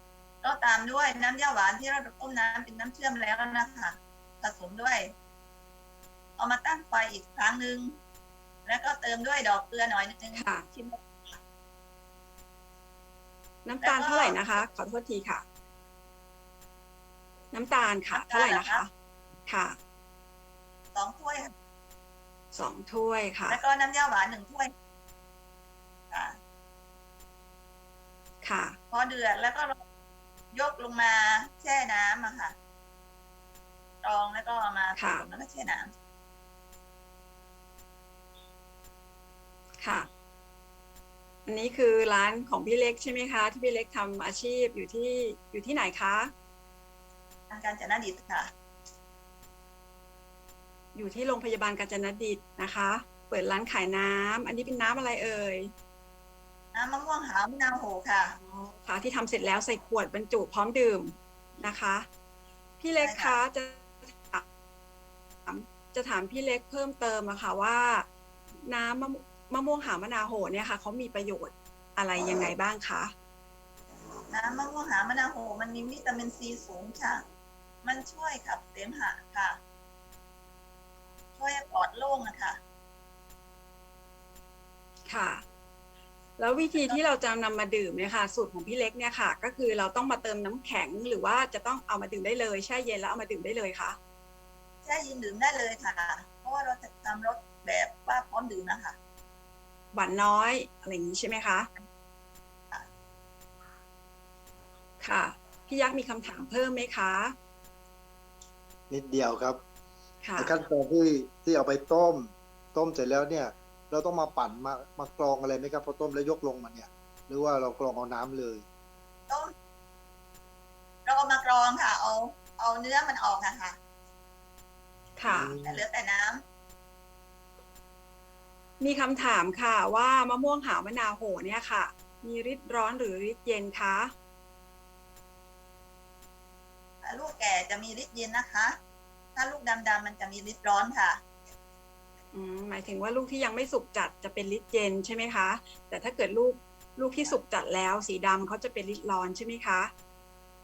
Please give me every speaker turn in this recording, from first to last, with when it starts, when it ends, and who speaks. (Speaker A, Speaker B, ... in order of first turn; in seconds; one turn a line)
Speaker A: 0.4-5.1
Speaker A: 6.4-8.0
Speaker A: 8.7-11.0
Speaker B: 10.3-10.6
Speaker B: 13.6-15.4
Speaker A: 13.8-14.5
Speaker B: 17.5-18.9
Speaker A: 18.1-18.9
Speaker B: 19.5-19.8
Speaker A: 20.9-21.5
Speaker B: 22.5-23.6
Speaker A: 23.5-24.7
Speaker A: 26.1-26.4
Speaker B: 28.4-28.8
Speaker A: 28.9-29.8
Speaker A: 30.5-32.5
Speaker A: 34.0-35.9
Speaker B: 35.0-35.2
Speaker B: 39.8-40.1
Speaker B: 41.5-46.3
Speaker A: 47.5-48.5
Speaker B: 50.9-55.7
Speaker A: 56.7-58.3
Speaker B: 58.4-62.1
Speaker B: 62.8-64.4
Speaker A: 63.0-63.4
Speaker B: 65.5-68.0
Speaker B: 68.7-73.1
Speaker A: 74.3-77.2
Speaker A: 77.8-79.6
Speaker A: 81.3-82.6
Speaker B: 85.1-85.4
Speaker B: 86.4-94.0
Speaker A: 86.8-87.0
Speaker A: 94.8-99.0
Speaker B: 99.9-101.7
Speaker B: 105.0-107.3
Speaker C: 108.9-109.6
Speaker B: 110.2-110.5
Speaker C: 110.4-118.6
Speaker A: 121.0-123.8
Speaker B: 125.2-125.5
Speaker C: 125.2-125.8
Speaker A: 125.6-126.4
Speaker B: 128.8-134.1
Speaker A: 137.0-138.7
Speaker A: 139.3-141.2
Speaker B: 142.3-149.9